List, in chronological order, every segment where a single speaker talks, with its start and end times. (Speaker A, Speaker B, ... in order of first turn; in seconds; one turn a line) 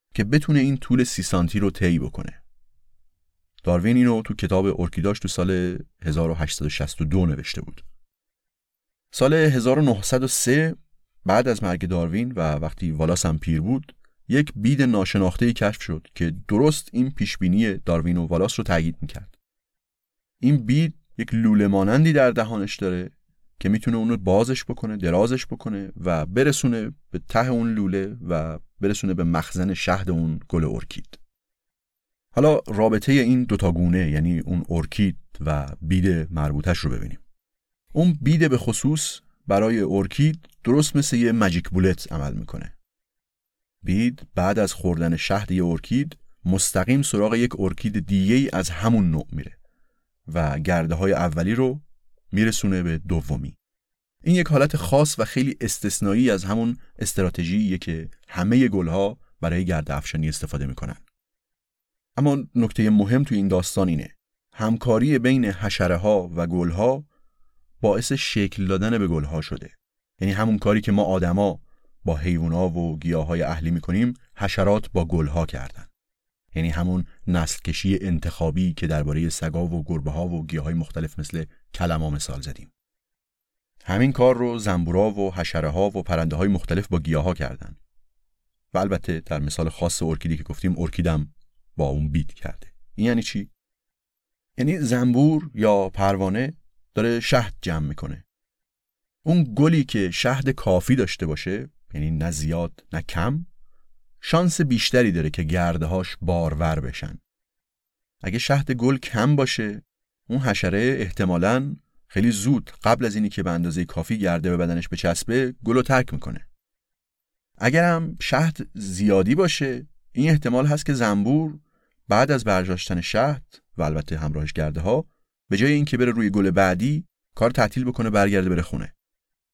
Speaker A: 0.1-2.4
Speaker A: 3.6-7.8
Speaker A: 9.1-19.3
Speaker A: 20.4-31.2
Speaker A: 32.3-37.2
Speaker A: 37.9-42.7
Speaker A: 43.8-49.6
Speaker A: 50.3-53.6
Speaker A: 54.2-61.0
Speaker A: 62.2-67.1
Speaker A: 67.8-75.9
Speaker A: 76.5-82.7
Speaker A: 83.8-87.8
Speaker A: 88.7-93.5
Speaker A: 94.6-98.2
Speaker A: 99.2-103.5
Speaker A: 104.2-107.2
Speaker A: 108.2-116.5
Speaker A: 117.6-128.9